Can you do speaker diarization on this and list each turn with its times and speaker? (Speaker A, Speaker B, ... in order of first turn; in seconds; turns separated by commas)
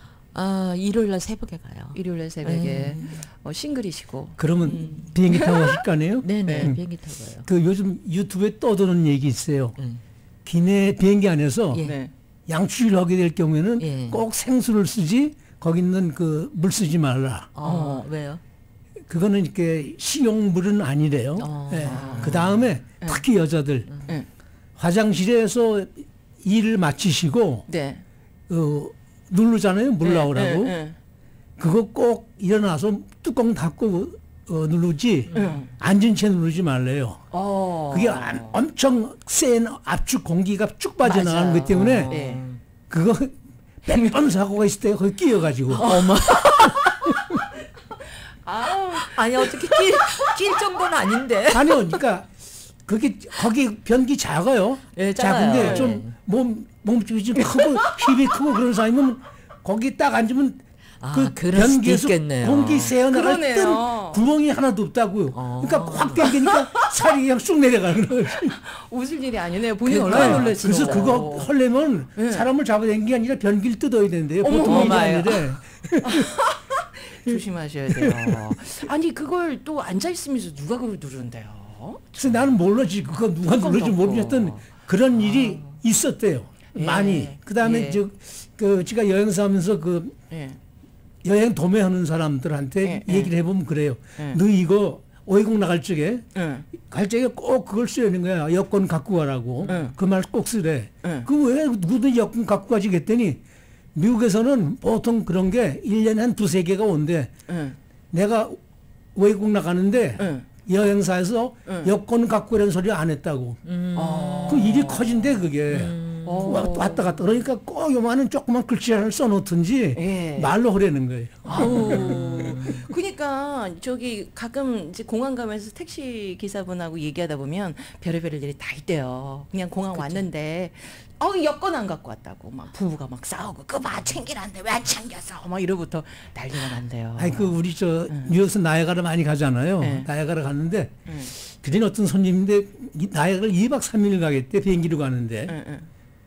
Speaker A: 0.3-3.2, Speaker B: 1.9-5.8, Speaker C: 4.4-6.8, Speaker A: 6.2-7.5, Speaker B: 6.5-6.7, Speaker C: 7.4-9.8, Speaker A: 9.8-10.0, Speaker C: 10.4-11.8, Speaker B: 11.8-12.1, Speaker C: 12.5-17.5, Speaker A: 13.8-14.2, Speaker A: 17.5-18.4, Speaker B: 17.6-18.1, Speaker C: 19.1-23.9, Speaker A: 21.4-22.7, Speaker B: 21.9-23.2, Speaker A: 23.9-24.1, Speaker C: 24.8-27.6, Speaker B: 27.7-28.0, Speaker C: 28.5-30.8, Speaker B: 30.0-30.9, Speaker C: 31.6-37.2, Speaker A: 35.3-35.6, Speaker B: 35.3-35.7, Speaker B: 37.3-38.6, Speaker C: 37.9-42.1, Speaker B: 41.0-42.4, Speaker A: 41.4-42.6, Speaker C: 42.9-45.9, Speaker B: 43.9-44.1, Speaker A: 45.7-46.9, Speaker B: 48.4-50.3, Speaker A: 49.0-51.9, Speaker C: 51.5-52.3, Speaker C: 52.9-68.5, Speaker A: 54.9-56.1, Speaker B: 55.5-56.0, Speaker A: 61.0-63.0, Speaker B: 63.1-64.2, Speaker A: 65.3-66.3, Speaker B: 66.3-66.5, Speaker B: 68.5-71.5, Speaker C: 69.8-76.3, Speaker A: 70.0-71.3, Speaker B: 72.2-72.5, Speaker B: 74.4-75.2, Speaker A: 74.6-75.4, Speaker B: 76.0-82.4, Speaker C: 77.9-78.5, Speaker C: 82.2-90.1, Speaker B: 83.4-85.8, Speaker B: 86.7-88.0, Speaker B: 90.3-90.6, Speaker C: 91.2-103.4, Speaker B: 92.8-93.3, Speaker B: 96.3-96.7, Speaker A: 99.6-99.8, Speaker B: 99.7-100.0, Speaker C: 103.9-107.3, Speaker B: 107.5-107.8, Speaker C: 108.1-108.6, Speaker C: 109.1-113.6, Speaker B: 110.2-110.5, Speaker B: 111.7-111.9, Speaker A: 113.6-114.7, Speaker B: 114.0-115.4, Speaker C: 114.5-122.3, Speaker A: 115.7-116.7, Speaker B: 116.2-117.3, Speaker B: 119.9-120.5, Speaker A: 121.4-122.8, Speaker B: 121.5-137.5, Speaker A: 129.9-130.2, Speaker C: 137.2-145.5, Speaker B: 138.1-138.3, Speaker B: 139.8-140.1, Speaker B: 141.1-141.3, Speaker B: 145.5-145.9